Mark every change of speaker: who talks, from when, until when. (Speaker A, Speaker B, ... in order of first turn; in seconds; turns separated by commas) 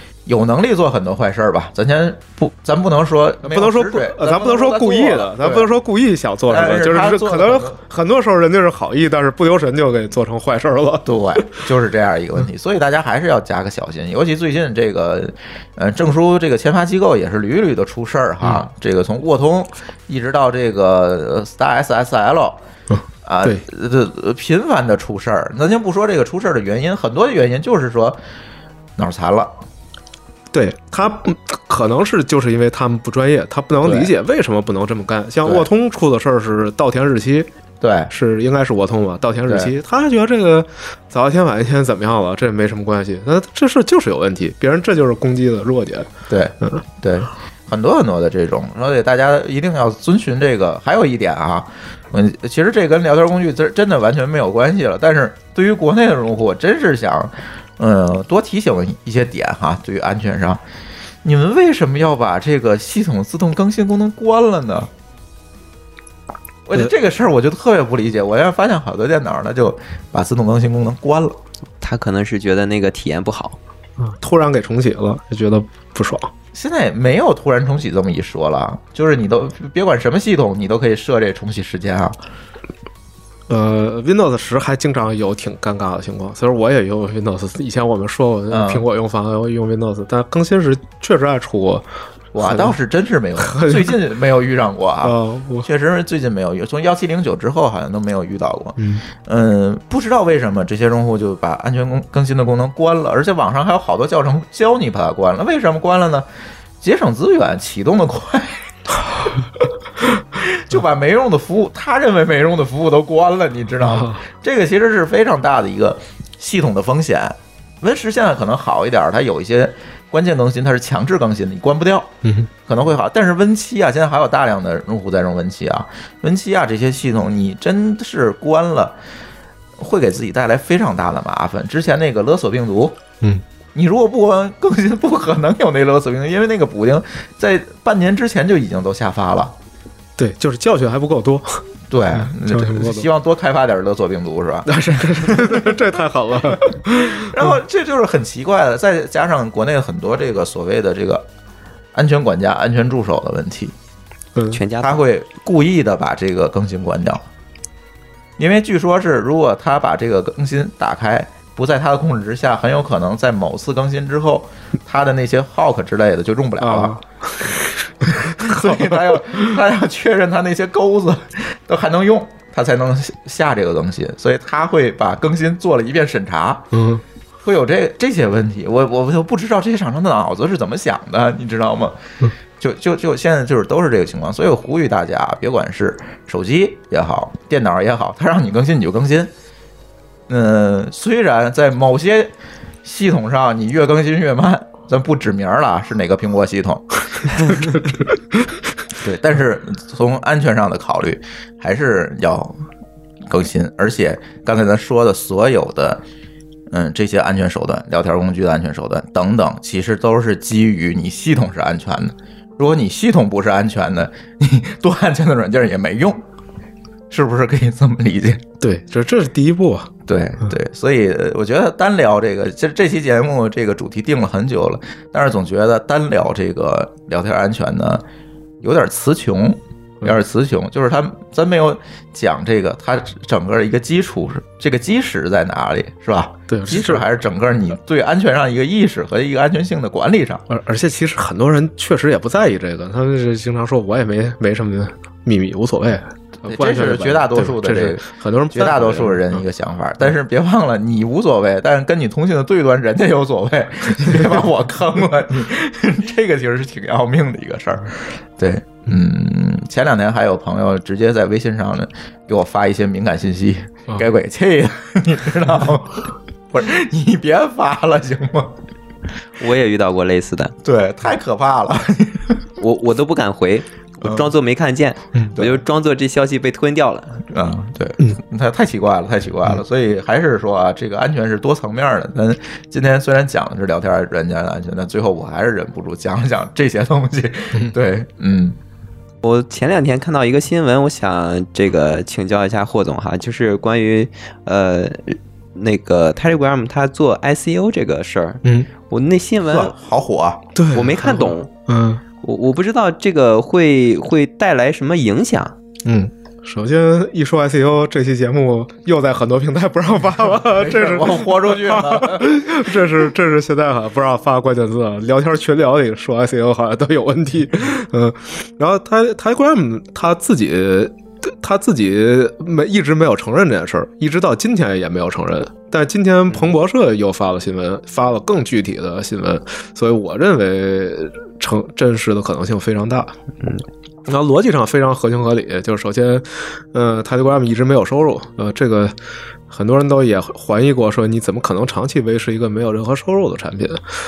Speaker A: 0.2-5.7, Speaker B: 3.4-11.6, Speaker A: 6.5-7.8, Speaker A: 11.0-22.6, Speaker B: 22.9-23.6, Speaker A: 23.2-28.2, Speaker A: 29.0-29.5, Speaker B: 30.5-37.5, Speaker A: 33.8-34.1, Speaker A: 37.8-38.1, Speaker B: 38.1-46.1, Speaker A: 39.5-39.7, Speaker A: 46.3-60.6, Speaker A: 61.2-64.9, Speaker A: 66.7-71.4, Speaker C: 71.8-73.6, Speaker B: 74.0-76.3, Speaker A: 76.5-82.2, Speaker B: 83.5-91.8, Speaker A: 88.5-88.8, Speaker A: 92.3-106.2, Speaker B: 92.4-92.7, Speaker B: 93.4-94.0, Speaker B: 95.0-95.7, Speaker B: 98.8-99.0, Speaker A: 106.8-108.7, Speaker A: 110.3-122.1, Speaker B: 113.8-114.2, Speaker B: 122.2-122.5, Speaker A: 122.7-128.9, Speaker A: 129.8-133.0, Speaker A: 133.7-139.5, Speaker B: 140.2-143.1, Speaker A: 141.9-145.7, Speaker B: 144.7-147.5, Speaker A: 146.9-151.2, Speaker A: 151.9-153.7, Speaker C: 154.5-155.0, Speaker A: 154.8-157.2, Speaker A: 158.4-167.0, Speaker B: 166.6-169.0, Speaker A: 168.1-176.7, Speaker B: 176.7-177.0, Speaker A: 177.4-182.0, Speaker A: 182.6-189.3, Speaker A: 190.3-192.3, Speaker A: 192.8-197.8, Speaker A: 199.0-202.6, Speaker A: 203.2-206.0, Speaker A: 206.7-216.2, Speaker A: 217.1-218.4, Speaker B: 218.6-219.9, Speaker A: 220.1-228.0, Speaker A: 228.6-240.4, Speaker B: 236.5-237.1, Speaker B: 240.5-249.4, Speaker A: 246.4-268.6, Speaker C: 269.4-270.5, Speaker A: 270.6-272.4, Speaker C: 272.6-277.2, Speaker A: 274.0-274.3, Speaker A: 275.4-275.6, Speaker A: 277.3-288.6, Speaker C: 289.2-299.7, Speaker A: 299.4-300.4, Speaker B: 300.6-302.0, Speaker C: 300.7-301.5, Speaker C: 302.2-305.5, Speaker B: 305.9-333.1, Speaker A: 310.4-312.7, Speaker B: 334.1-338.9, Speaker B: 339.5-343.8